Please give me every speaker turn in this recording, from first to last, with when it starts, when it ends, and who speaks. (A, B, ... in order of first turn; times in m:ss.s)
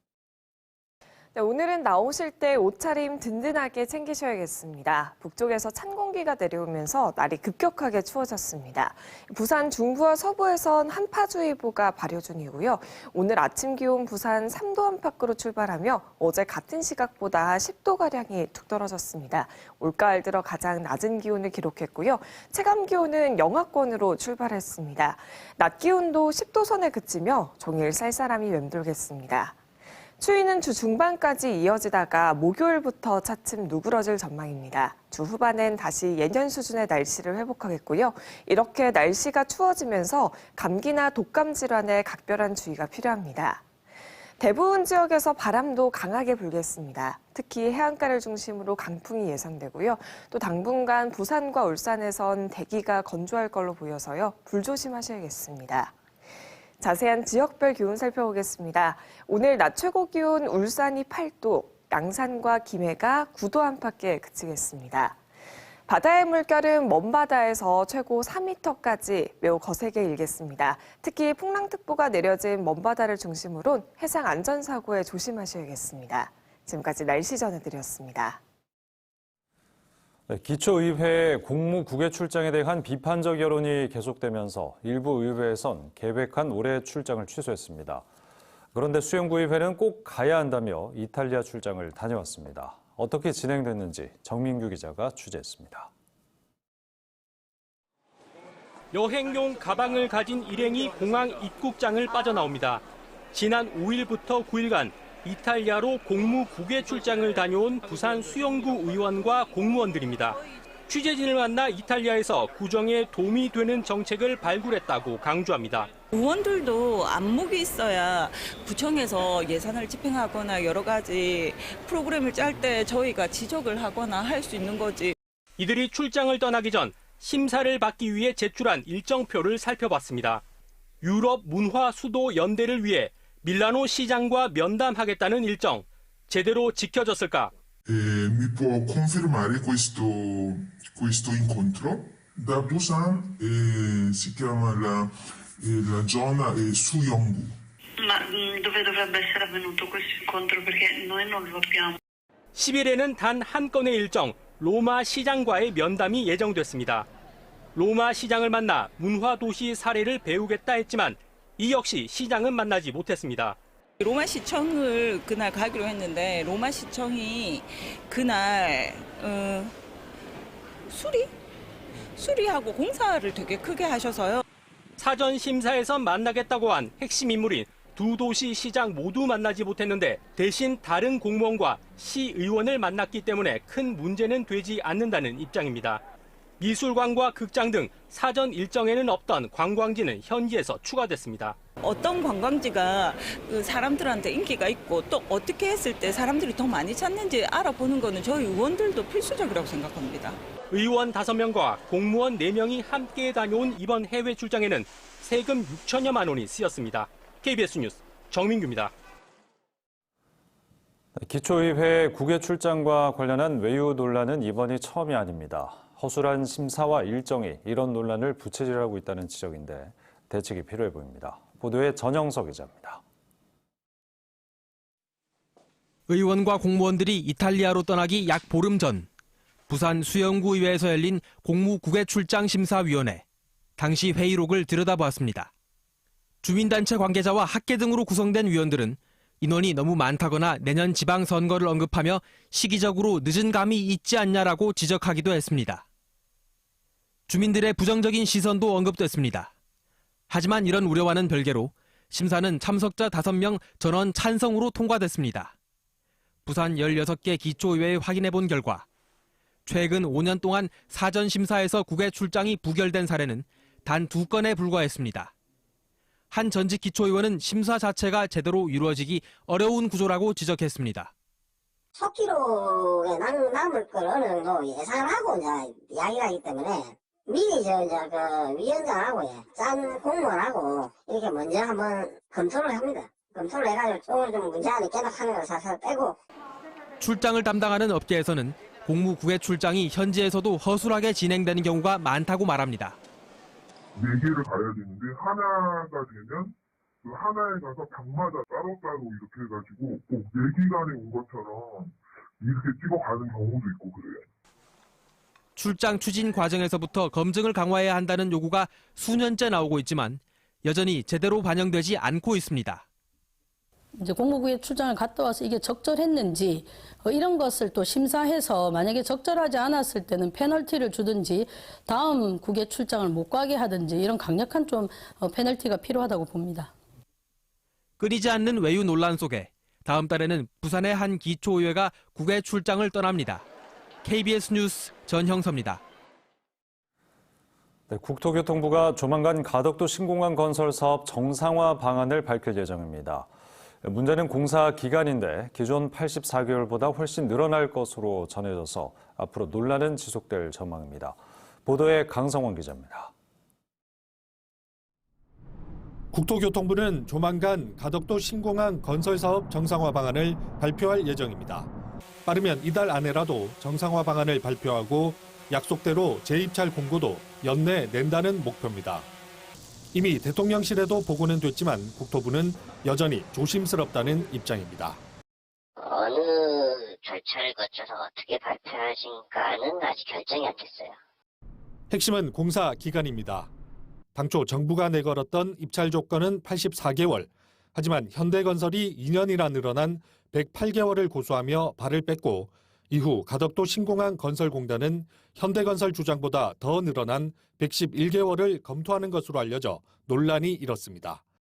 0:01.3-0:29.6 A
0:30.2-0:43.6 A
0:44.4-0:55.9 A
0:56.8-1:05.2 A
1:05.9-1:18.4 A
1:20.3-1:28.0 B
1:28.7-1:35.9 B
1:38.9-1:55.9 C
1:56.1-2:05.2 D
2:05.6-2:10.4 C
2:11.0-2:17.5 C
2:17.9-2:27.6 E
2:28.0-2:32.0 F
2:32.6-2:37.1 C
2:37.8-2:43.6 C
2:44.0-2:49.7 D
2:50.9-2:51.3 D
2:52.2-2:54.4 D
2:55.0-3:06.0 C
3:06.6-3:11.6 C
3:11.8-3:20.4 D
3:20.7-3:28.9 C
3:31.2-3:43.0 B
3:46.1-3:49.1 G
3:49.7-3:53.2 G
3:53.8-3:55.5 G
3:56.4-4:05.8 G
4:07.3-4:09.5 G
4:10.3-4:15.5 G
4:16.5-4:18.9 G
4:19.7-4:25.3 G
4:26.3-4:31.1 G
4:32.0-4:46.2 H
4:47.0-4:53.0 G
4:54.0-5:04.3 E
5:05.6-5:12.8 G
5:14.0-5:26.7 I
5:28.0-5:33.4 G
5:34.0-5:35.8 G
5:37.9-5:43.3 B
5:43.8-5:53.1 B
5:56.1-6:01.7 J
6:02.3-6:09.1 J
6:09.9-6:15.0 J
6:15.8-6:21.0 H
6:21.9-6:23.5 J
6:24.2-6:41.2 J